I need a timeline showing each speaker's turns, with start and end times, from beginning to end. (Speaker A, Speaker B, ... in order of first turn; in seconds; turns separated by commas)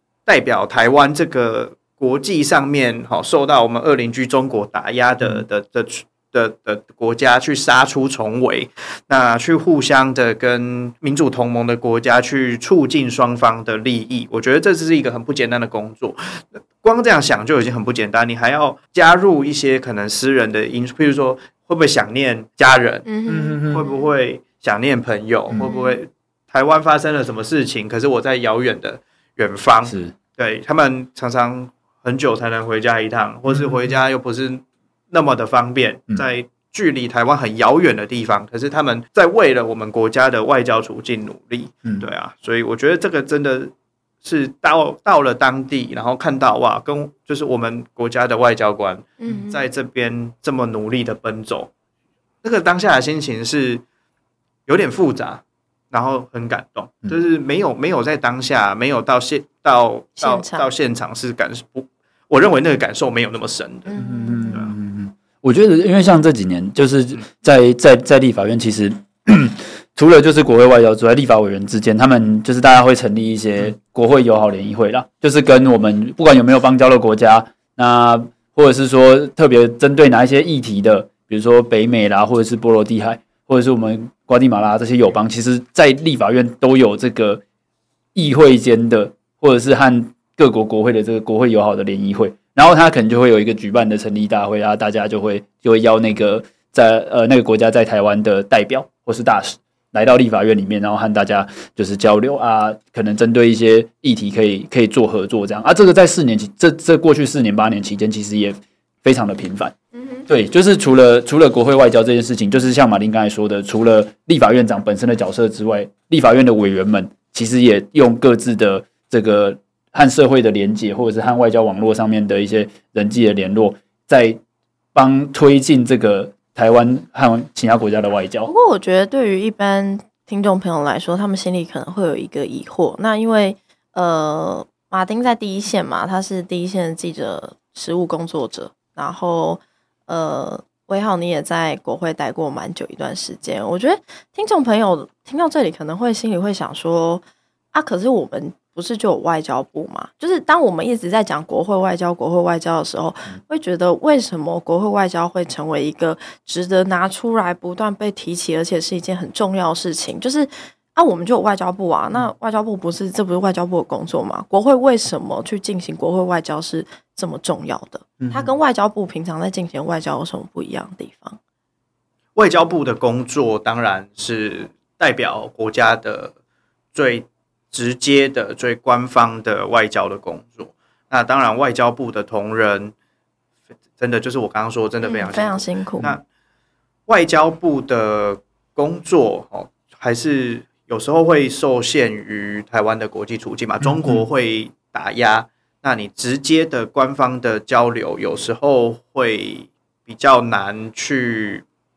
Speaker A: 0.2-23.1, Speaker B: 23.1-24.1, Speaker C: 23.3-23.9, Speaker A: 23.7-43.7, Speaker B: 25.6-25.9, Speaker C: 29.9-30.1, Speaker C: 33.5-33.9, Speaker A: 44.2-51.7, Speaker B: 49.2-49.6, Speaker A: 52.4-53.8, Speaker A: 54.7-64.0, Speaker B: 60.2-60.7, Speaker B: 63.9-64.6, Speaker C: 64.0-87.4, Speaker C: 88.1-109.7, Speaker B: 110.0-110.3, Speaker C: 110.3-124.4, Speaker C: 125.0-128.5, Speaker B: 128.5-147.2, Speaker B: 147.7-171.4, Speaker C: 168.2-168.5, Speaker A: 172.4-176.3, Speaker A: 176.9-182.9, Speaker A: 184.0-186.2, Speaker B: 185.0-186.1, Speaker A: 187.1-201.6, Speaker C: 193.8-194.2